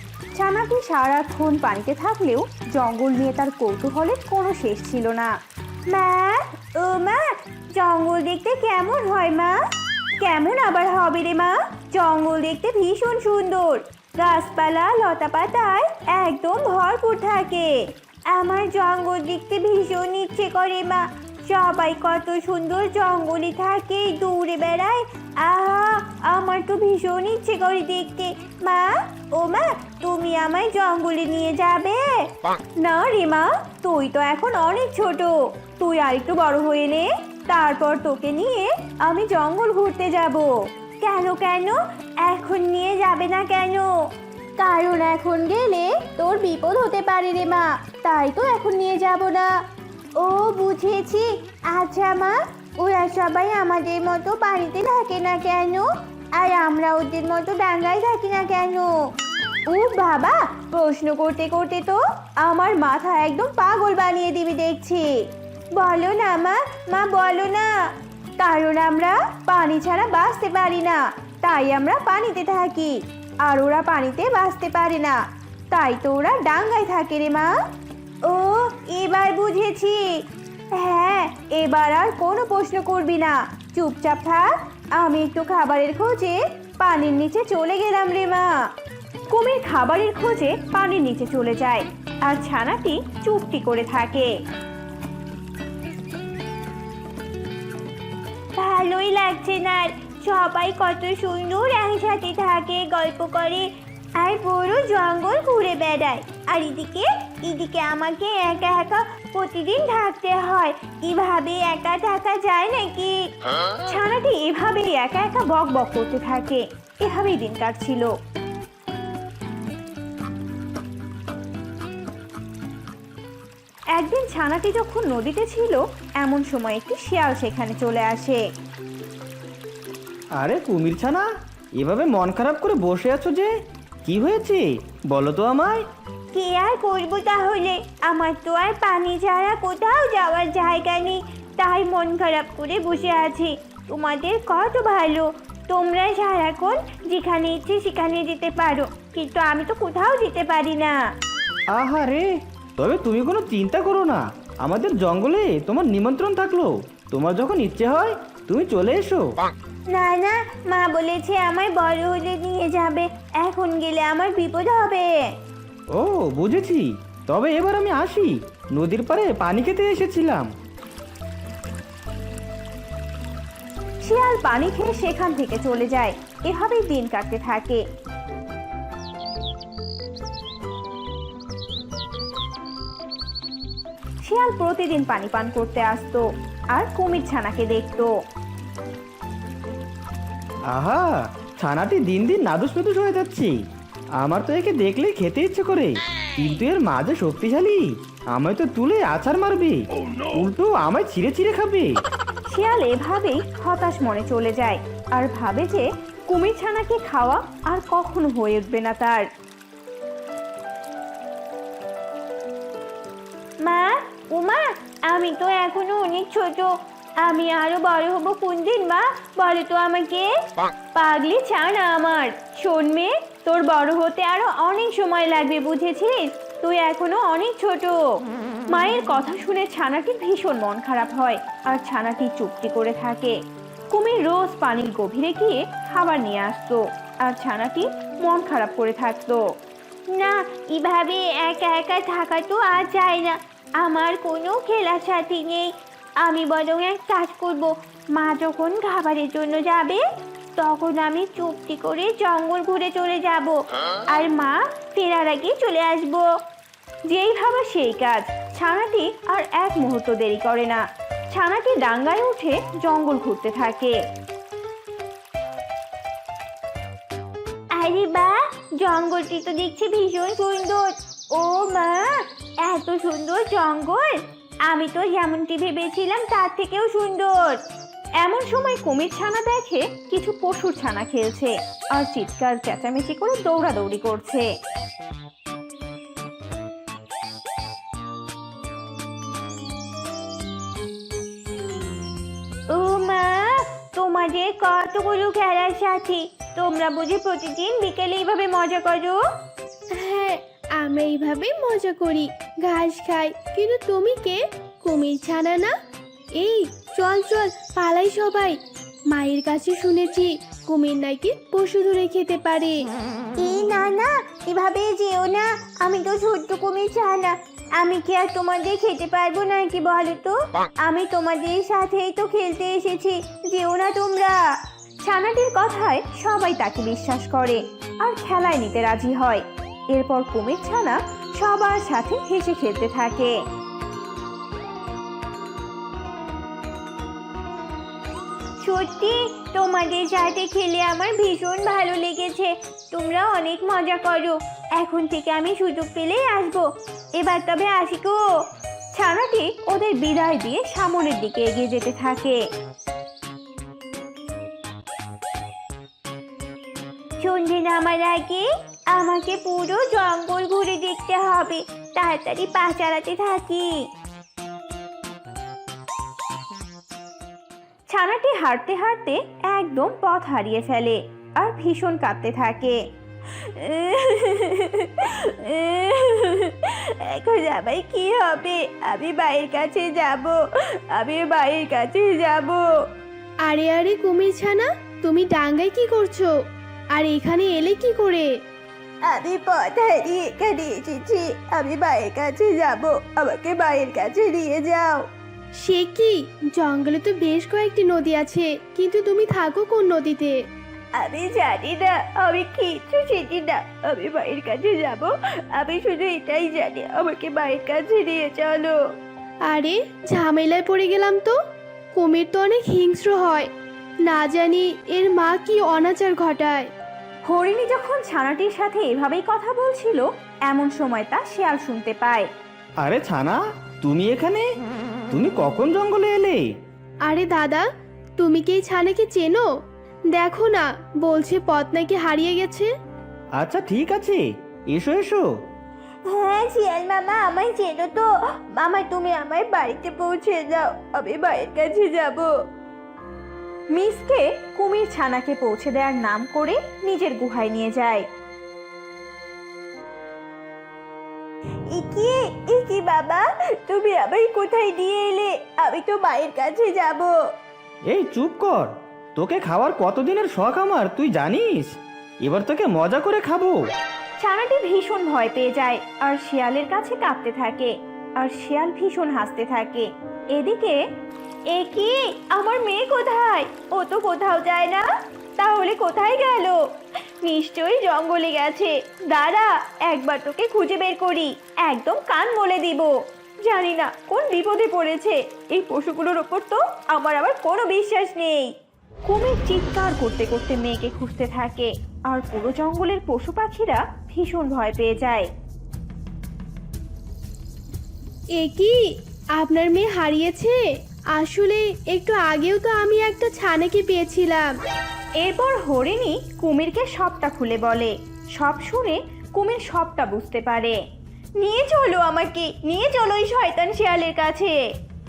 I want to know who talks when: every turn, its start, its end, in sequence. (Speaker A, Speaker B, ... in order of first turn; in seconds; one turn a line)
Speaker A: 0.3-5.3
Speaker A: 5.9-9.6
Speaker A: 10.2-17.7
Speaker A: 18.3-32.2
Speaker A: 32.8-40.5
Speaker A: 41.0-43.9
Speaker A: 44.6-49.5
Speaker A: 50.2-58.9
Speaker A: 59.7-65.1
Speaker A: 65.7-67.7
Speaker A: 68.4-75.2
Speaker A: 75.7-77.5
Speaker A: 78.2-80.0
Speaker A: 80.7-88.5
Speaker A: 89.3-94.3
Speaker A: 98.5-113.2
Speaker A: 113.8-118.1
Speaker A: 123.9-128.4
Speaker B: 130.4-133.5
Speaker B: 134.0-135.8
Speaker A: 136.3-151.0
Speaker B: 151.7-159.4
Speaker A: 159.9-165.1
Speaker B: 165.9-170.5
Speaker A: 174.0-177.8
Speaker A: 184.2-188.1
Speaker B: 190.7-193.6
Speaker B: 194.2-202.0
Speaker A: 202.5-209.3
Speaker A: 213.6-220.3
Speaker A: 220.9-228.0
Speaker A: 228.7-233.4
Speaker A: 233.9-239.4
Speaker A: 240.1-250.0
Speaker A: 250.6-253.6
Speaker A: 254.1-256.3
Speaker A: 257.1-264.0
Speaker A: 267.7-277.6
Speaker A: 278.2-284.5
Speaker A: 292.7-299.2
Speaker C: 299.9-305.7
Speaker C: 306.4-308.6
Speaker C: 309.1-312.8
Speaker A: 313.4-324.4
Speaker A: 325.0-333.4
Speaker A: 338.6-348.2
Speaker A: 348.9-352.4
Speaker A: 357.2-363.7
Speaker A: 367.9-372.8
Speaker A: 373.4-382.7
Speaker C: 383.4-386.3
Speaker C: 386.9-388.2
Speaker A: 389.0-395.1
Speaker C: 395.6-400.4
Speaker A: 400.9-408.8
Speaker C: 409.5-411.3
Speaker C: 411.9-413.5
Speaker C: 414.1-416.7
Speaker A: 417.3-422.3
Speaker B: 422.8-424.5
Speaker B: 425.1-426.5
Speaker C: 427.1-427.6
Speaker C: 428.2-429.4
Speaker C: 430.1-432.7
Speaker B: 433.3-435.3
Speaker A: 436.0-442.3
Speaker A: 443.7-448.1
Speaker A: 451.7-457.2
Speaker B: 457.9-463.7
Speaker A: 464.2-470.8
Speaker A: 471.5-474.9
Speaker A: 475.4-476.6
Speaker A: 477.2-488.5
Speaker A: 489.0-495.3
Speaker C: 498.4-498.8
Speaker C: 499.4-500.6
Speaker C: 501.1-504.5
Speaker A: 505.2-510.8
Speaker A: 511.4-514.6